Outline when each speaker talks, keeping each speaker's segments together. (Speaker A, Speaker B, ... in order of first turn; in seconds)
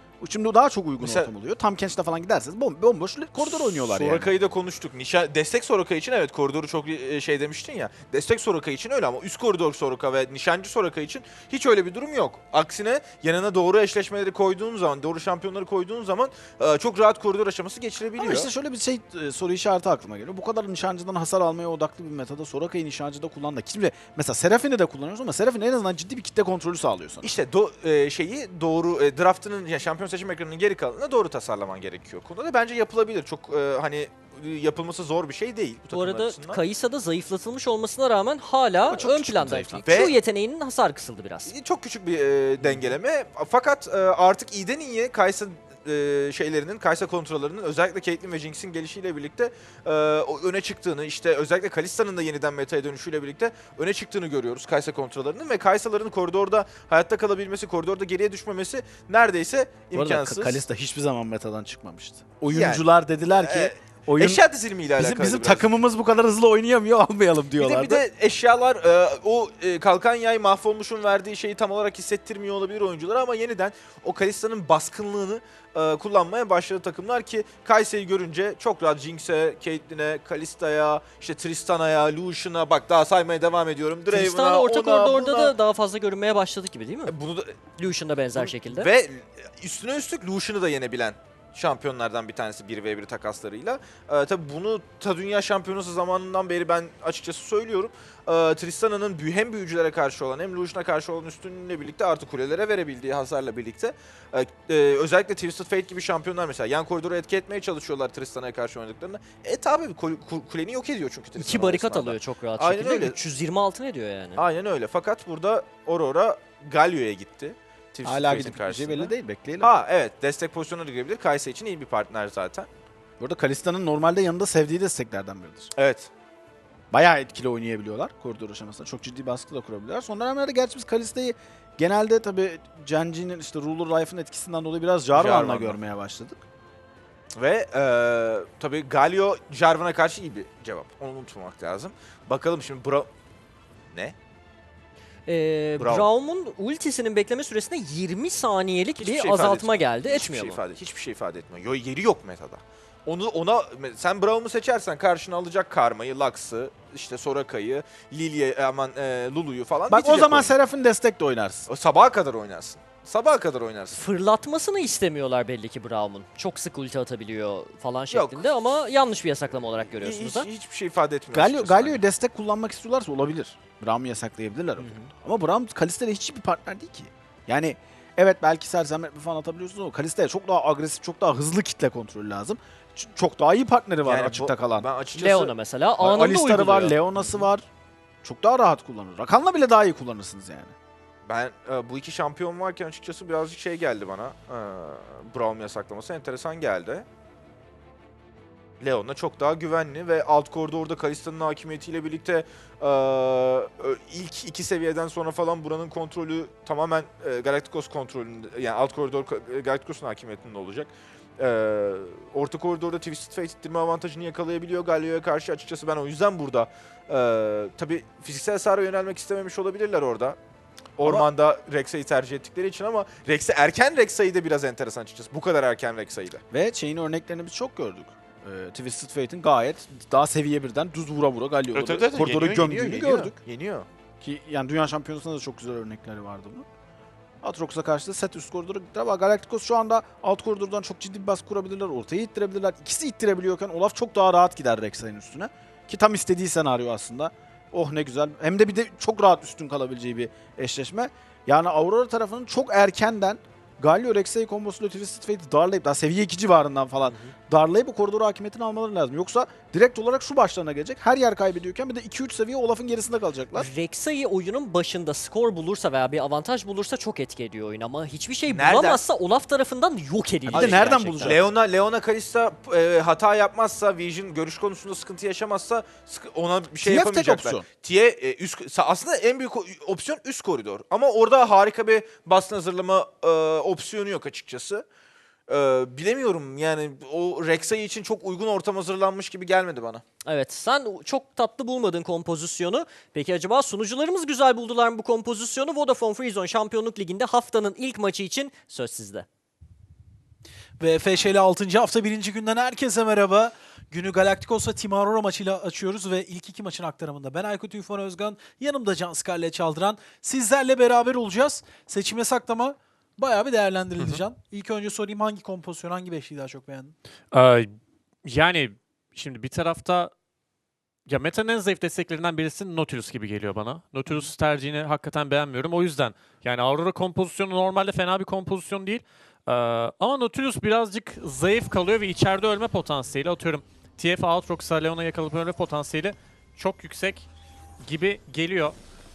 Speaker A: 0.2-4.3, 18.2-27.3, 38.9-39.9, 42.6-42.9, 59.9-64.4, 65.0-68.0, 118.0-119.7, 123.2-125.7, 126.9-136.4, 159.9-161.7, 171.3-184.9, 186.0-187.7, 188.2-190.7, 226.5-233.3, 234.2-236.7, 237.4-263.7, 270.5-271.4, 276.8-277.6
Speaker B: 1.0-1.3, 3.4-18.5, 27.2-36.6, 39.9-40.1, 41.5-60.6, 62.5-65.7, 67.6-85.5, 87.1-87.8, 88.3-113.2, 114.3-122.7, 125.8-126.1, 135.1-135.8, 137.3-143.1, 145.8-146.1, 149.0-160.5, 161.7-164.0, 168.1-168.5, 169.9-172.0, 174.8-175.1, 184.0-185.5, 191.3-197.1, 198.8-220.4, 221.0-226.4, 231.7-233.9, 268.5-269.0, 270.5-284.8, 285.5-290.0
Speaker C: 35.9-41.5, 84.1-87.1, 87.8-88.9, 111.4-114.4, 145.3-150.6, 163.9-170.5, 185.1-187.4, 263.5-271.4, 290.2-299.2
Speaker D: 300.8-316.9
Speaker E: 314.0-314.2, 317.3-320.1, 321.1-337.3, 337.8-338.8